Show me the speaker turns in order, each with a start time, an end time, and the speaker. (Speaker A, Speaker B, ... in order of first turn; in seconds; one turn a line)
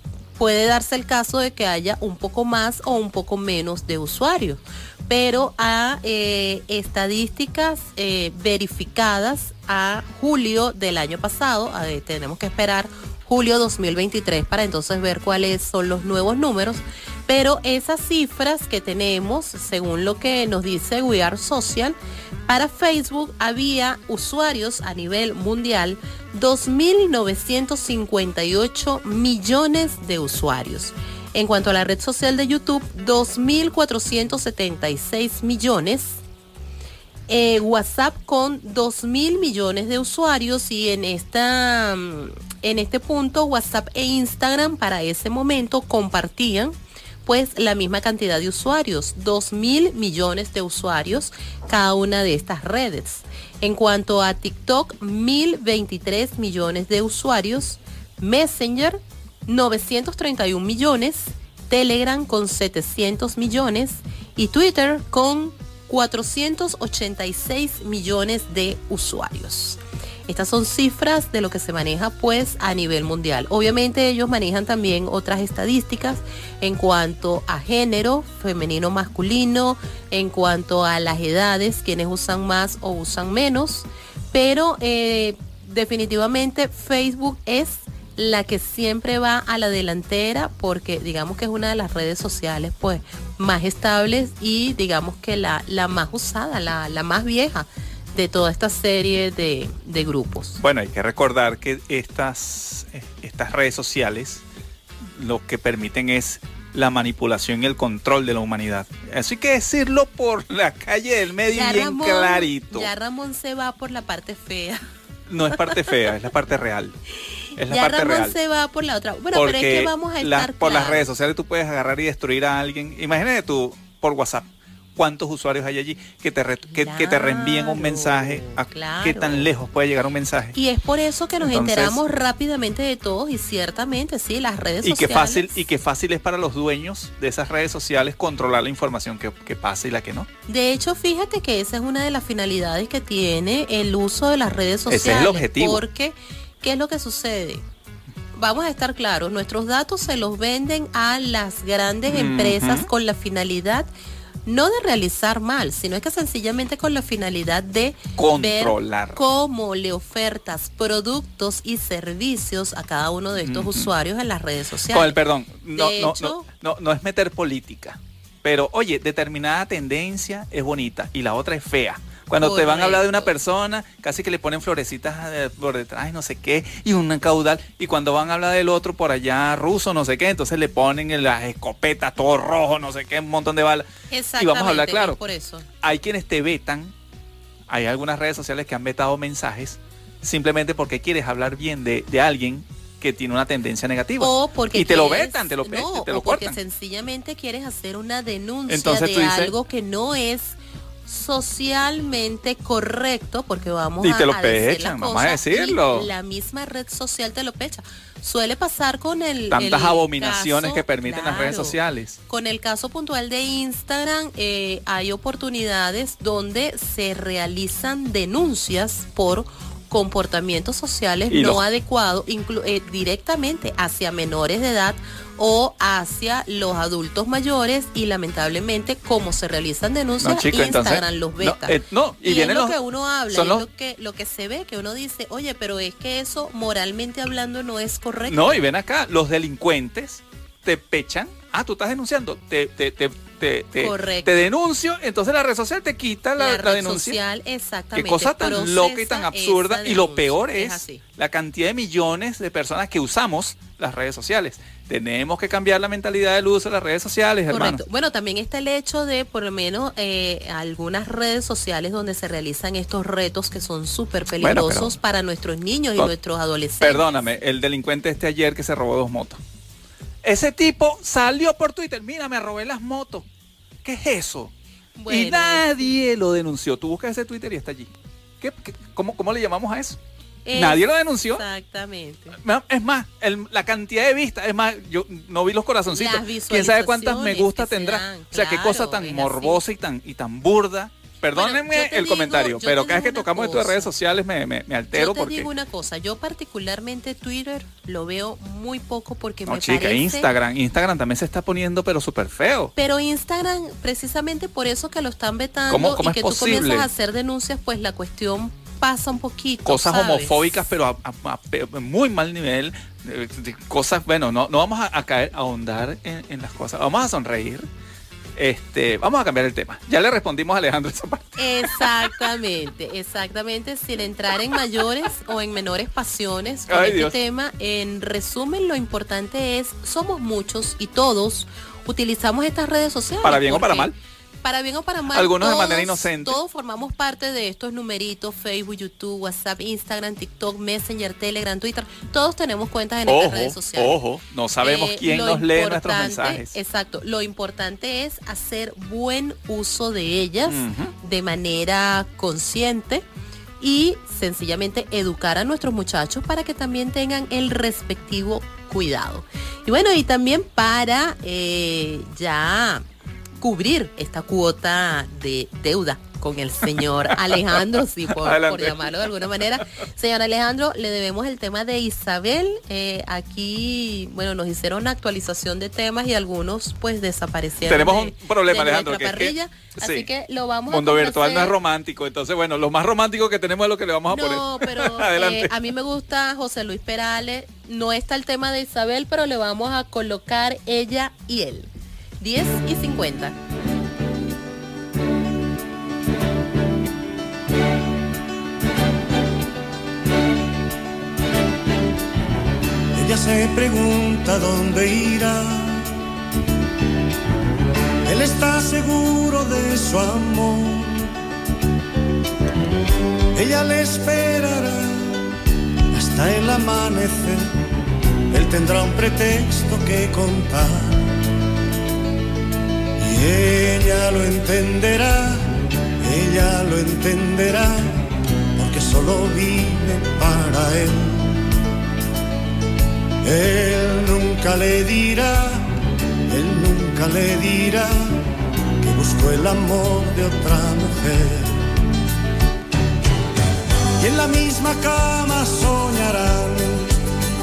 Speaker A: 0.4-36.2
Speaker A: 37.3-100.6
Speaker B: 100.6-104.4
Speaker B: 105.1-112.9
Speaker A: 111.5-114.8
Speaker B: 115.3-117.0
Speaker A: 115.5-115.9
Speaker B: 117.6-118.3
Speaker A: 117.7-121.1
Speaker B: 119.3-130.6
Speaker A: 126.7-129.5
Speaker A: 130.6-135.6
Speaker B: 131.4-132.1
Speaker B: 134.8-140.3
Speaker A: 140.5-147.6
Speaker B: 144.9-145.8
Speaker A: 148.4-153.9
Speaker B: 152.1-152.9
Speaker A: 154.5-165.2
Speaker B: 158.2-159.2
Speaker B: 163.4-163.9
Speaker B: 164.9-185.2
Speaker A: 165.8-166.5
Speaker A: 172.4-173.3
Speaker A: 184.1-185.7
Speaker B: 185.8-186.9
Speaker B: 187.7-196.6
Speaker A: 194.2-211.8
Speaker B: 198.7-199.5
Speaker B: 204.0-206.1
Speaker B: 209.5-212.2
Speaker A: 212.3-238.6
Speaker B: 221.3-221.6
Speaker B: 230.2-232.8
Speaker B: 233.3-233.6
Speaker B: 238.3-247.2
Speaker A: 243.8-244.4
Speaker A: 246.4-251.0
Speaker B: 247.9-257.8
Speaker A: 257.5-267.4
Speaker B: 264.4-264.9
Speaker B: 266.8-269.4
Speaker B: 270.2-273.2
Speaker B: 273.8-274.5
Speaker A: 275.0-275.7
Speaker B: 275.1-280.0
Speaker A: 280.5-282.4
Speaker B: 280.5-281.4
Speaker B: 282.4-295.5
Speaker A: 285.9-289.6
Speaker A: 291.4-293.9
Speaker A: 294.9-300.3
Speaker B: 299.5-302.7
Speaker A: 302.8-310.6
Speaker B: 305.7-306.9
Speaker B: 309.7-317.7
Speaker B: 318.4-322.2
Speaker A: 321.4-344.0
Speaker B: 326.7-327.1
Speaker B: 333.2-333.9
Speaker B: 335.1-336.4
Speaker B: 343.1-346.6
Speaker A: 344.6-353.1
Speaker B: 350.5-350.9
Speaker A: 353.6-362.8
Speaker A: 363.4-381.5
Speaker B: 366.8-369.6
Speaker B: 377.7-380.1
Speaker B: 380.7-385.5
Speaker A: 384.1-391.7
Speaker A: 392.2-393.4
Speaker C: 402.9-405.9
Speaker C: 408.1-411.1
Speaker C: 413.4-415.3
Speaker C: 415.9-417.5
Speaker C: 418.3-421.1
Speaker C: 423.0-425.5
Speaker C: 426.0-428.0
Speaker C: 428.6-431.5
Speaker C: 433.2-435.7
Speaker C: 436.3-438.2
Speaker C: 438.8-441.7
Speaker C: 444.0-446.9